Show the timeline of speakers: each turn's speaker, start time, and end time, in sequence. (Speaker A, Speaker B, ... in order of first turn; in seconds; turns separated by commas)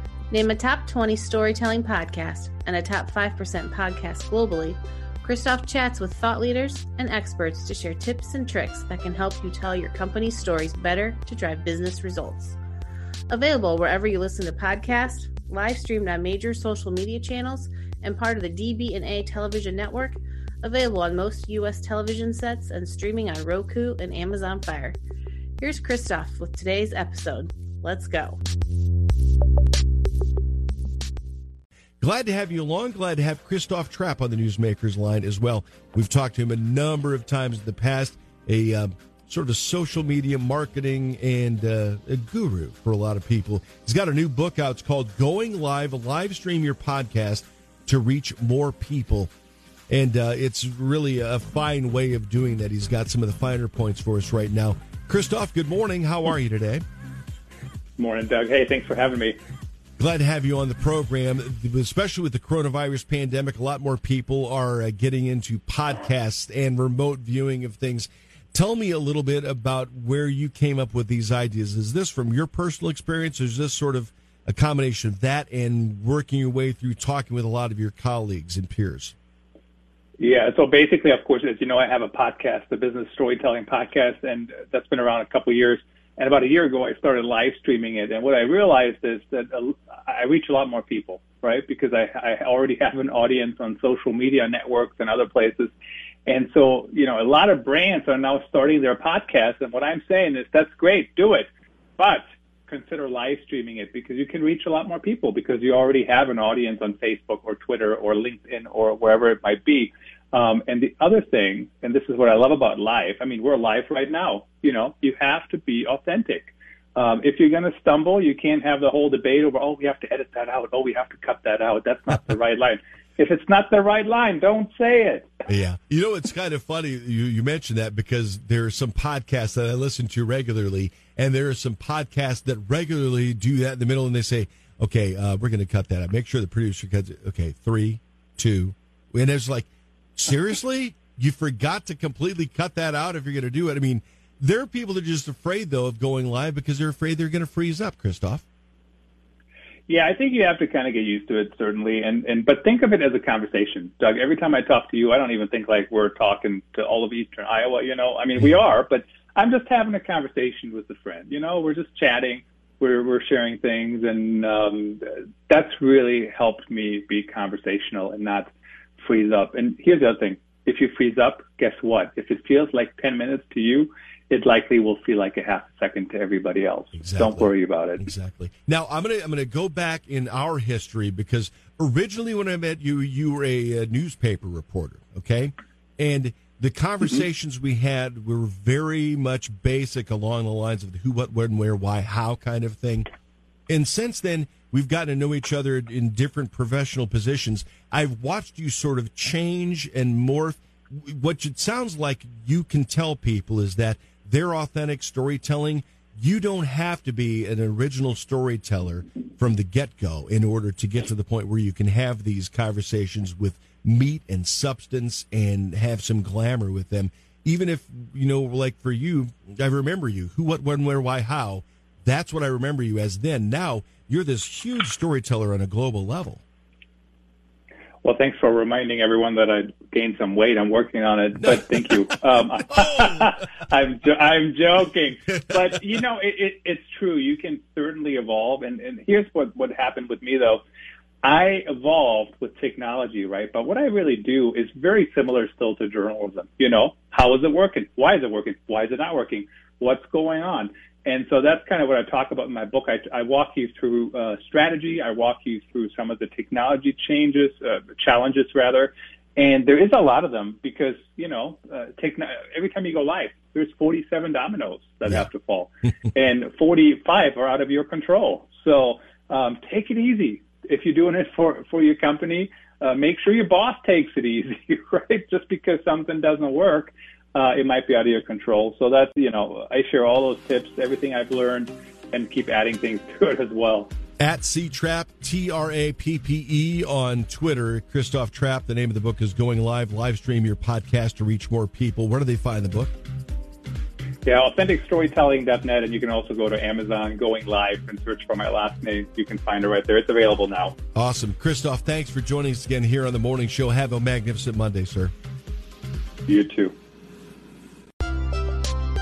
Speaker A: 0.3-12.6, Speaker A: 13.3-25.0, Speaker A: 25.6-28.4, Speaker B: 32.0-49.3, Speaker B: 49.9-56.8, Speaker C: 58.0-59.4, Speaker B: 60.0-79.1, Speaker C: 80.2-95.7, Speaker C: 96.2-125.4, Speaker B: 125.5-148.4, Speaker C: 149.9-178.0, Speaker B: 176.9-193.1, Speaker B: 193.7-226.4, Speaker C: 228.0-240.6, Speaker C: 241.2-283.9, Speaker B: 284.2-292.9, Speaker C: 294.2-300.7, Speaker B: 300.9-305.1, Speaker C: 306.3-306.7